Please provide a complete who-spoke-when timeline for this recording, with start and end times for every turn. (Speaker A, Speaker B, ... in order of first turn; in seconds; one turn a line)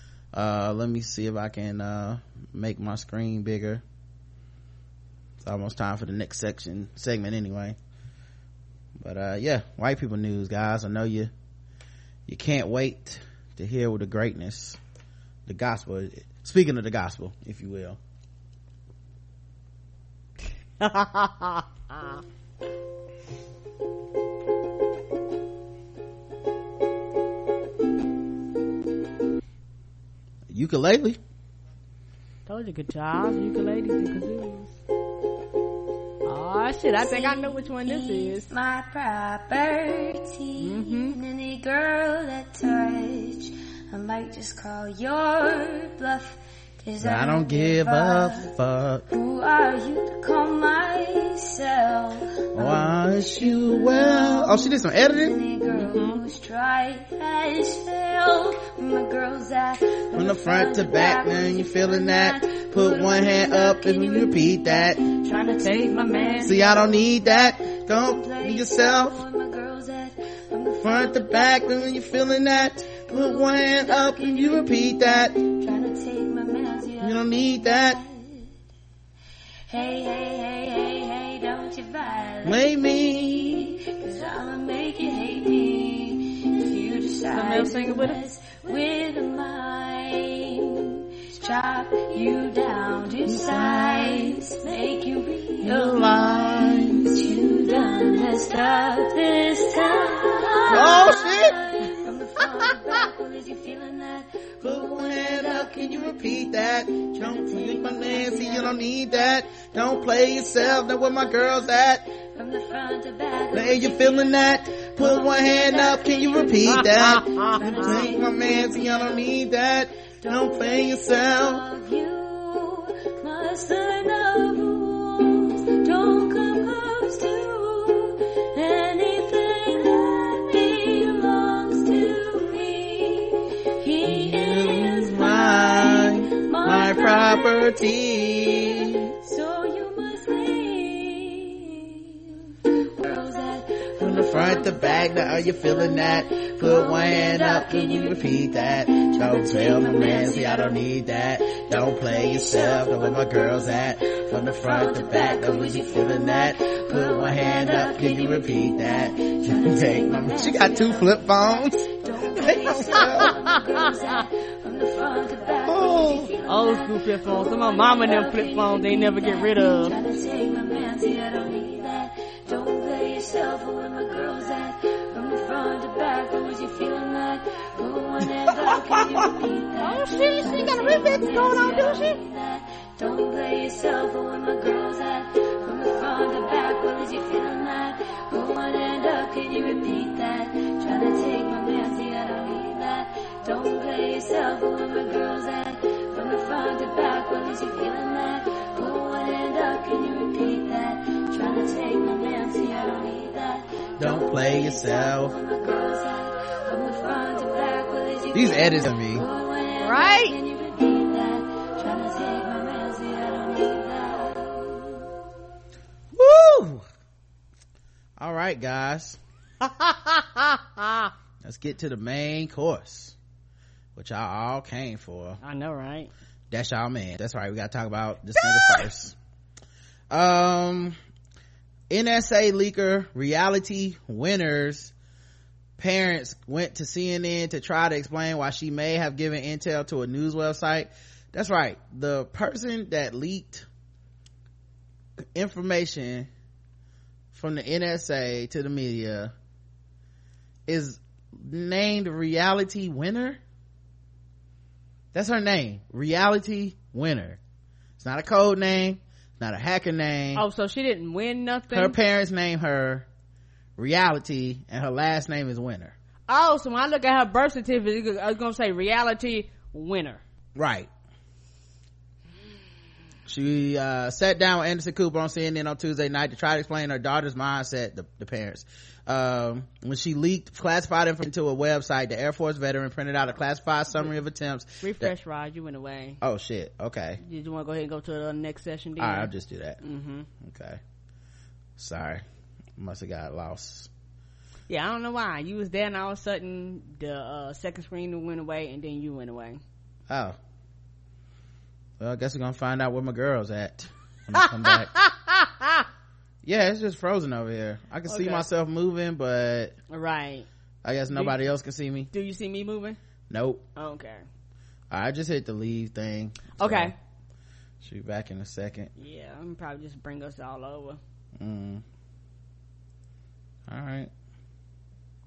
Speaker A: 0.3-3.8
Speaker A: 5.4-7.8
Speaker A: 9.0-11.3
Speaker A: 12.3-14.8
Speaker A: 15.5-18.0
Speaker B: 20.8-22.1
Speaker A: 30.5-31.2
Speaker B: 32.5-34.8
Speaker B: 36.2-38.5
Speaker C: 36.9-48.5
Speaker B: 40.6-41.2
Speaker A: 47.0-49.1
Speaker C: 49.1-78.5
Speaker A: 52.5-56.2
Speaker A: 60.1-65.0
Speaker B: 65.3-66.6
Speaker A: 66.4-69.2
Speaker A: 70.8-75.4
Speaker A: 77.0-78.0
Speaker C: 79.7-119.5
Speaker A: 82.4-83.5
Speaker B: 87.3-88.2
Speaker A: 93.3-94.2
Speaker A: 95.6-97.1
Speaker A: 100.7-101.6
Speaker A: 104.6-112.0
Speaker A: 113.5-121.6
Speaker B: 116.7-118.1
Speaker C: 120.0-142.2
Speaker A: 134.1-139.1
Speaker C: 142.7-215.0
Speaker A: 144.0-163.3
Speaker A: 165.7-166.3
Speaker B: 166.4-169.9
Speaker A: 178.7-179.1
Speaker B: 179.8-182.2
Speaker A: 204.0-205.3
Speaker A: 208.3-209.2
Speaker B: 209.8-210.4
Speaker A: 216.2-216.8
Speaker A: 218.2-219.2
Speaker B: 219.6-221.1
Speaker A: 221.4-223.1
Speaker A: 223.9-225.4
Speaker B: 225.4-226.1
Speaker A: 226.5-229.1
Speaker B: 228.4-228.8
Speaker A: 230.1-230.9
Speaker A: 231.9-234.9
Speaker A: 235.8-243.7
Speaker A: 245.3-246.3
Speaker A: 247.3-249.3
Speaker A: 250.7-253.4
Speaker A: 255.1-257.4
Speaker A: 258.0-260.4
Speaker B: 260.3-261.9
Speaker A: 261.7-263.1
Speaker A: 263.8-265.9
Speaker B: 266.3-270.2
Speaker A: 270.6-270.9
Speaker A: 273.3-285.1
Speaker B: 284.8-286.2
Speaker A: 286.2-287.2
Speaker B: 287.2-290.3
Speaker A: 289.0-289.8
Speaker A: 290.4-290.8
Speaker A: 291.8-292.2
Speaker A: 292.8-293.9
Speaker B: 294.7-299.6
Speaker A: 300.1-300.4
Speaker A: 302.0-304.9
Speaker B: 304.4-305.8
Speaker A: 306.4-309.7
Speaker B: 308.1-308.5
Speaker B: 309.9-310.4
Speaker A: 310.8-312.1
Speaker B: 311.1-311.4
Speaker B: 312.1-313.0
Speaker A: 313.3-313.6
Speaker B: 313.8-314.2
Speaker A: 314.9-316.9
Speaker B: 316.6-316.9
Speaker A: 317.8-318.9
Speaker B: 318.9-321.0
Speaker A: 321.4-321.8
Speaker A: 323.7-324.1